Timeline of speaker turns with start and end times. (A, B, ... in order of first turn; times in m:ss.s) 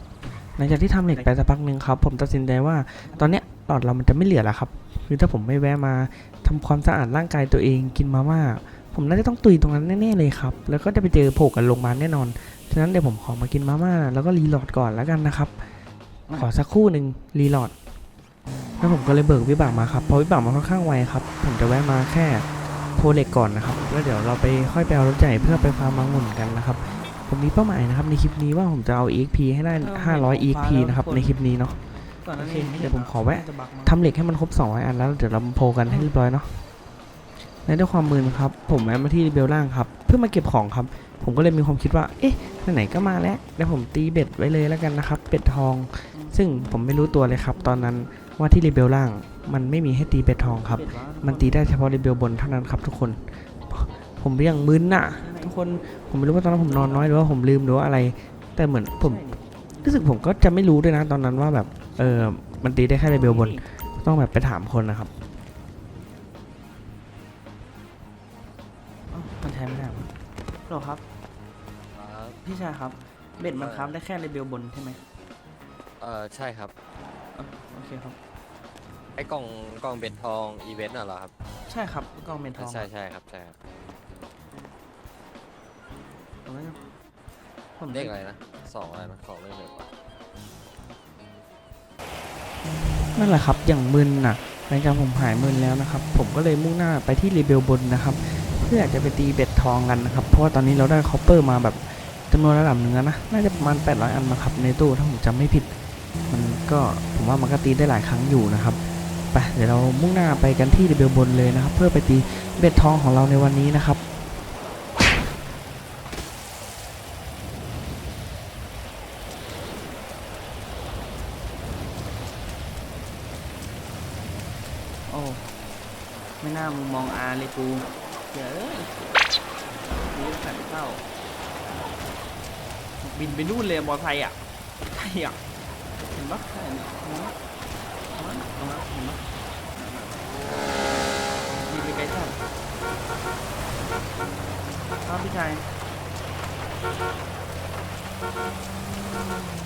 0:00.6-0:15.8 A
0:03.0-0:03.4 B
0:16.3-0:17.8 A
0:18.8-0:31.8 A
0:29.8-0:31.4 B
0:32.2-0:34.0 B
0:32.4-0:36.6 A
0:37.6-0:59.2 A
0:46.1-0:47.9 B
0:50.4-0:51.7 B
0:54.9-0:55.5 B
0:56.6-0:57.1 B
0:59.0-0:59.9 B
0:59.8-1:05.1 A
1:03.0-1:03.6 B
1:09.1-1:10.1 B
1:10.7-1:11.0 B
1:11.9-1:12.4 C
1:12.4-1:15.0 B
1:13.6-1:14.0 C
1:16.0-1:16.7 C
1:17.3-1:18.2 B
1:19.2-1:21.3 C
1:21.7-1:22.9 B
1:22.6-1:23.6 C
1:26.4-1:26.8 B
1:27.8-1:28.1 B
1:27.9-1:29.9 C
1:33.1-1:45.7 A
1:46.3-1:54.2 A
2:05.1-2:05.6 B
2:06.4-2:09.1 B
2:10.0-2:11.0 B
2:13.0-2:15.4 B
2:16.1-2:17.4 B
2:18.1-2:20.2 B
2:21.5-2:22.4 B
2:25.0-2:25.7 B